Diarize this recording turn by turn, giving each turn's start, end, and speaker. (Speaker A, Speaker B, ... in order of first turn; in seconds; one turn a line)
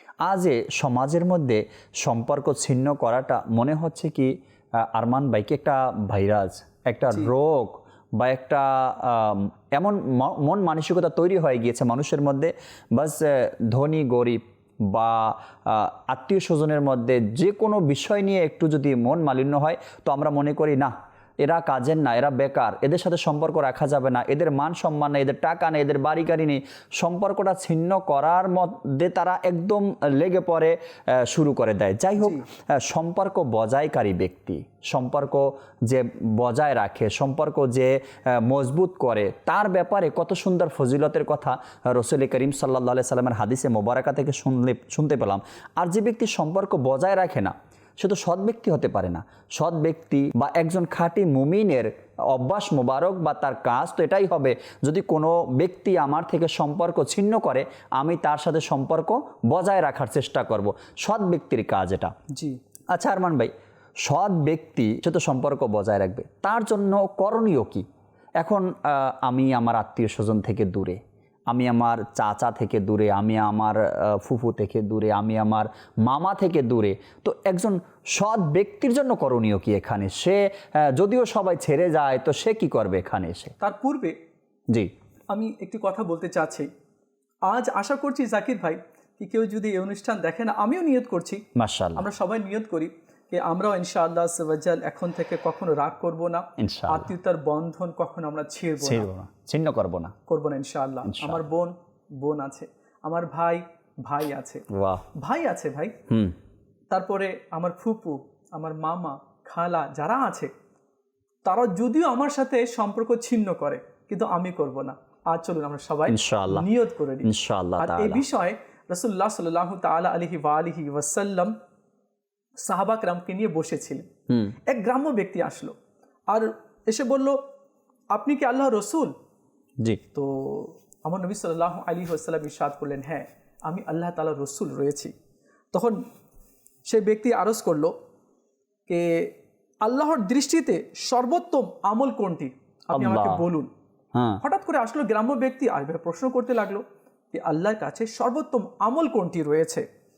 Speaker A: 0.2-62.1
Speaker B: 32.2-32.5
Speaker B: 62.3-62.6
Speaker A: 62.9-67.8
Speaker A: 68.4-83.5
Speaker B: 83.6-84.2
Speaker B: 85.3-86.7
Speaker B: 87.5-91.4
Speaker A: 91.5-92.0
Speaker B: 92.0-99.1
Speaker A: 96.6-97.1
Speaker A: 98.8-100.1
Speaker B: 100.3-104.6
Speaker A: 101.0-101.4
Speaker A: 104.7-105.0
Speaker B: 105.2-106.0
Speaker A: 106.1-106.3
Speaker B: 106.9-110.5
Speaker B: 111.5-121.5
Speaker A: 116.1-116.7
Speaker A: 117.2-118.2
Speaker B: 122.6-124.1
Speaker A: 124.3-124.5
Speaker B: 124.7-125.7
Speaker B: 126.3-127.4
Speaker B: 128.1-129.1
Speaker B: 130.1-135.1
Speaker B: 135.7-136.0
Speaker B: 136.9-137.9
Speaker B: 138.9-139.3
Speaker B: 139.8-143.7
Speaker A: 142.9-143.4
Speaker A: 144.1-144.4
Speaker B: 144.4-149.8